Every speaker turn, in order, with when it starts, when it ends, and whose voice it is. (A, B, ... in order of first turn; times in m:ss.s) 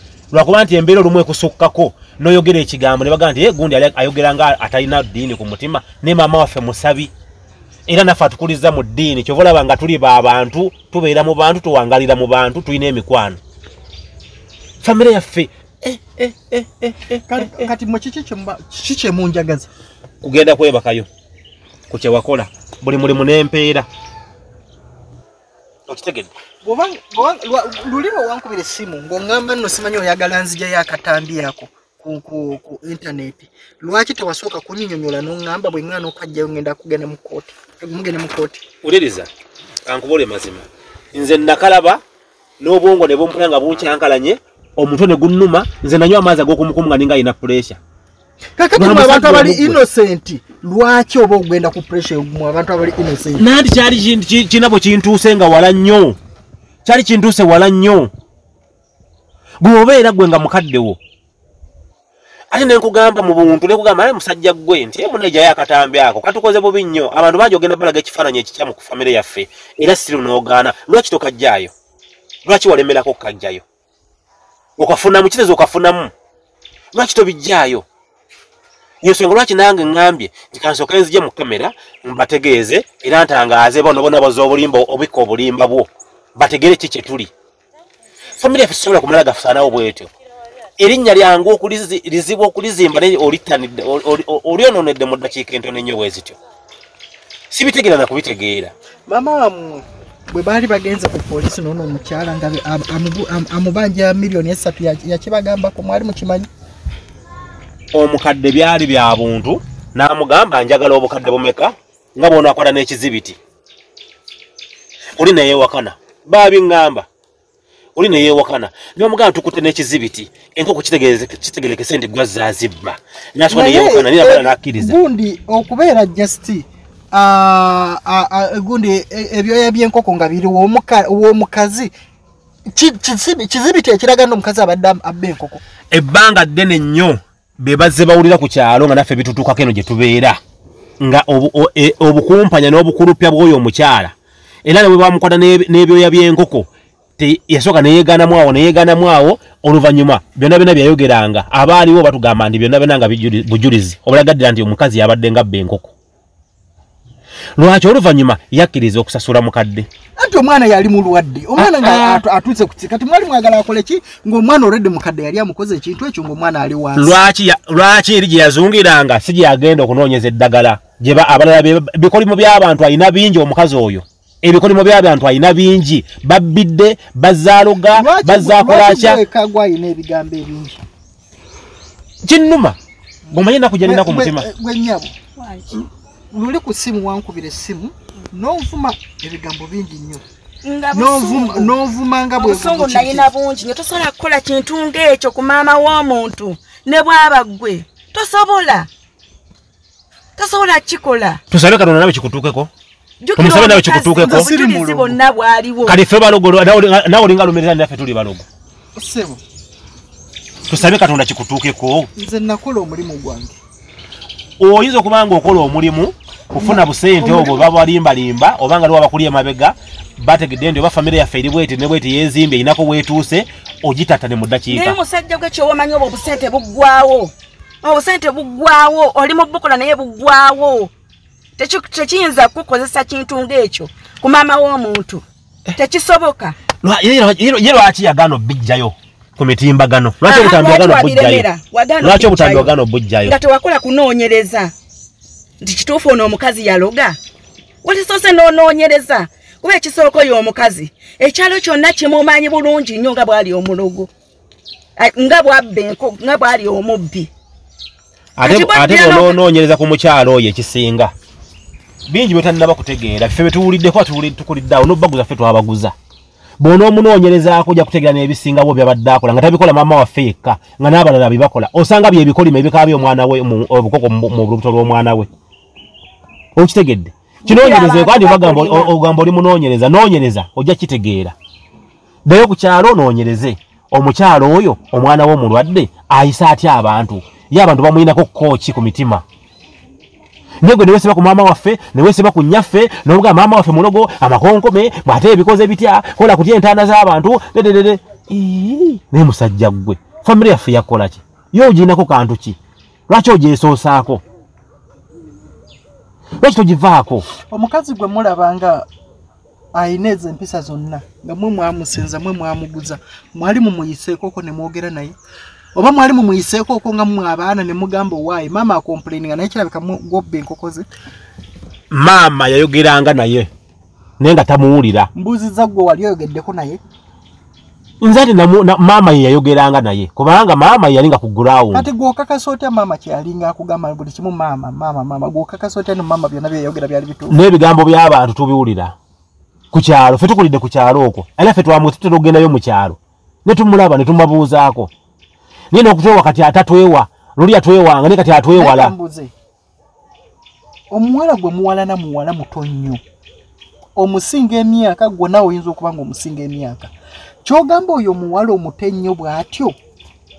0:00.3-0:07.1 A
0:07.9-0:13.4 A
0:14.8-0:17.7 A
0:17.3-0:19.7 B
0:20.2-0:21.1 A
0:21.9-0:23.9 A
0:25.9-0:26.3 A
0:26.6-0:38.6 B
0:38.8-0:39.3 A
0:39.8-0:42.0 A
0:42.6-0:47.8 A
0:48.6-0:53.4 B
0:48.8-0:49.8 A
0:53.4-0:56.2 A
0:56.8-0:58.1 A
0:59.6-1:01.0 A
1:02.5-1:11.7 A
1:12.4-1:13.6 A
1:14.8-1:16.1 A
1:16.9-1:17.8 A
1:19.0-1:27.3 A
1:28.4-1:30.1 A
1:30.8-1:36.4 A
1:37.5-1:38.7 A
1:39.1-1:46.5 B
1:47.9-1:53.4 A
1:55.2-1:57.0 A
1:58.0-2:05.0 A
2:03.5-2:11.9 B
2:12.7-2:15.6 B
2:15.9-2:20.4 A
2:21.0-2:24.1 A
2:24.6-2:26.7 A
2:27.2-2:35.9 A
2:37.6-2:39.9 A
2:40.2-2:47.2 B
2:41.6-2:42.2 A
2:47.0-2:59.2 A
2:57.9-3:00.8 B
3:02.2-3:02.8 A
3:03.3-3:04.5 A
3:03.3-3:05.1 B
3:05.4-3:05.8 C
3:06.3-3:10.2 B
3:10.6-3:11.7 C
3:10.9-3:13.2 B
3:12.4-3:18.9 C
3:20.4-3:21.4 C
3:21.5-3:22.7 A
3:23.2-3:26.0 C
3:23.4-3:24.5 A
3:24.2-3:25.2 B
3:25.8-3:28.4 A
3:29.0-3:29.4 B
3:30.7-3:32.1 A
3:32.2-3:33.6 B
3:34.6-3:45.0 A
3:36.6-3:37.7 B
3:44.7-3:50.9 C
3:51.6-3:55.2 C
3:55.8-3:56.6 C
3:56.8-4:01.4 A
4:00.2-4:02.7 C
4:02.0-4:03.4 A
4:03.2-4:04.7 C
4:05.6-4:07.2 C
4:07.8-4:14.1 C
4:15.0-4:17.3 C
4:18.4-4:21.1 A
4:18.4-4:19.4 C
4:22.1-4:25.9 A
4:26.6-4:35.3 A
4:36.6-4:41.3 A
4:37.4-4:38.9 C
4:42.2-4:49.2 A
4:50.6-5:02.6 A
5:03.1-5:04.2 A
5:06.4-5:07.3 A
5:07.5-5:08.8 B
5:09.7-5:15.1 B
5:15.7-5:20.9 B
5:21.9-5:23.5 A
5:24.2-5:25.1 A
5:25.1-5:26.8 B
5:28.0-5:31.9 A
5:31.7-5:37.4 B
5:37.3-5:38.9 A
5:39.7-5:44.9 A
5:45.7-5:48.9 A
5:48.5-5:49.3 B
5:50.9-5:53.0 B
5:54.0-5:56.9 B
5:57.4-5:59.8 B